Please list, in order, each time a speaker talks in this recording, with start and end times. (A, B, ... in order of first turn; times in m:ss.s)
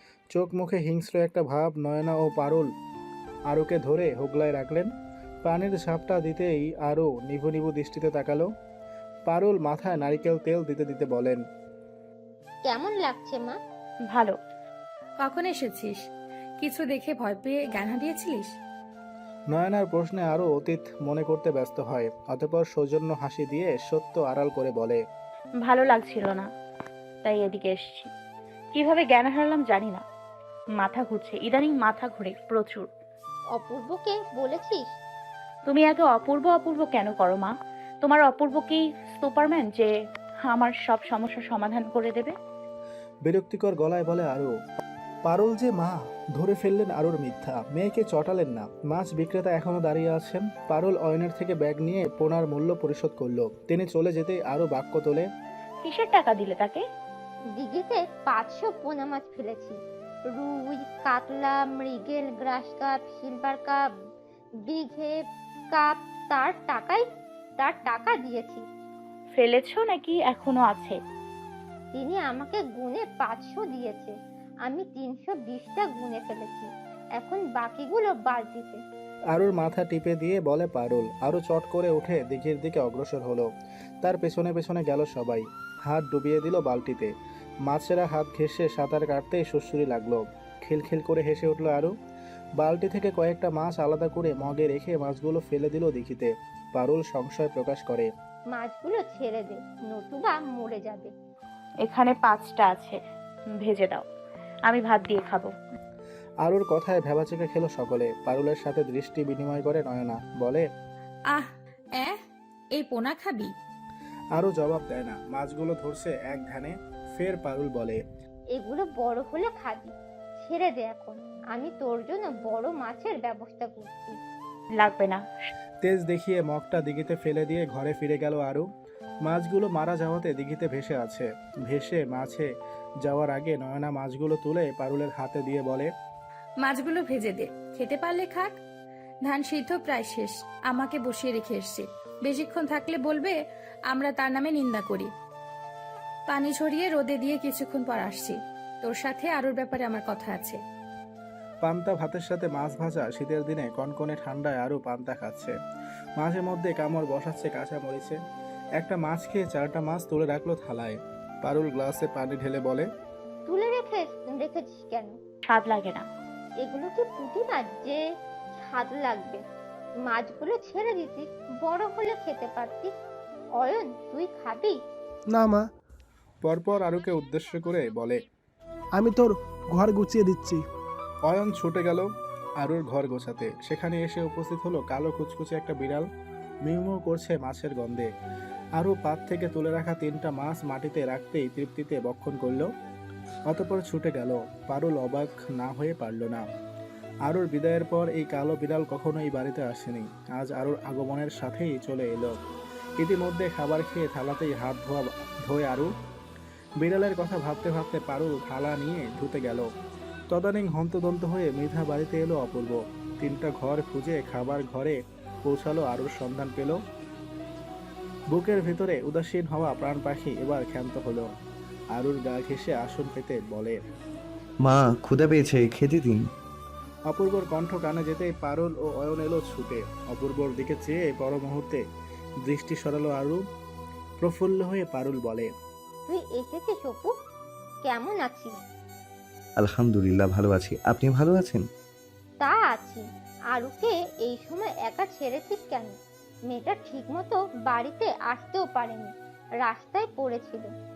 0:00.3-0:02.7 A
0:03.5-0:04.9 A
0:05.4-0:08.5 A
0:09.3-0:11.4 A
0:12.7-0:13.6 B
0:15.2-0:16.0 C
0:16.6-0:18.5 C
0:19.5-0:25.0 A
0:25.7-0:26.5 D
0:27.2-0:28.1 D
0:28.7-0:30.0 D
0:30.8-0:32.9 D
0:33.6-0:34.8 B
0:35.7-0:39.9 D
0:40.4-0:42.4 D
0:43.3-0:44.5 A
0:45.2-0:55.3 A
0:55.8-0:56.8 D
0:57.6-0:59.8 B
1:00.3-1:03.8 B
1:04.7-1:05.1 B
1:05.7-1:07.1 B
1:07.6-1:08.6 B
1:09.4-1:11.0 D
1:12.0-1:14.1 B
1:14.7-1:18.8 B
1:19.3-1:23.5 A
1:24.0-1:27.1 A
1:27.7-1:31.9 A
1:32.6-1:38.1 A
1:38.5-1:41.1 B
1:41.8-1:43.0 D
1:43.6-1:44.0 D
1:44.7-1:45.5 D
1:46.4-1:50.7 A
1:51.3-1:52.2 C
1:52.8-1:53.5 C
1:54.4-1:58.0 A
1:58.6-2:04.2 B
2:04.8-2:05.2 D
2:05.8-2:08.7 A
2:09.3-2:12.5 A
2:13.0-2:15.9 A
2:16.6-2:18.6 C
2:19.2-2:25.1 C
2:26.3-2:30.6 C
2:31.6-2:35.5 A
2:36.2-2:38.2 A
2:38.8-2:42.9 A
2:43.5-2:45.2 B
2:45.5-2:46.0 D
2:46.6-2:48.0 B
2:48.6-2:49.4 B
2:50.0-2:52.9 B
2:53.6-2:54.8 B
2:55.3-2:55.6 E
2:56.4-2:58.2 A
2:59.0-3:00.6 E
3:01.3-3:02.1 A
3:02.6-3:06.0 A
3:06.7-3:08.1 A
3:08.8-3:12.7 A
3:13.5-3:16.4 A
3:17.3-3:22.3 A
3:23.0-3:25.9 A
3:26.8-3:29.7 A
3:30.3-3:36.8 A
3:38.3-3:41.3 A
3:42.0-3:43.8 A
3:44.6-3:46.2 F
3:47.1-3:51.8 A
3:52.4-3:53.4 A
3:54.2-3:55.5 A
3:56.1-3:57.1 B
3:57.9-3:58.6 B
3:59.6-4:01.7 F
4:02.4-4:05.9 B
4:06.5-4:10.7 B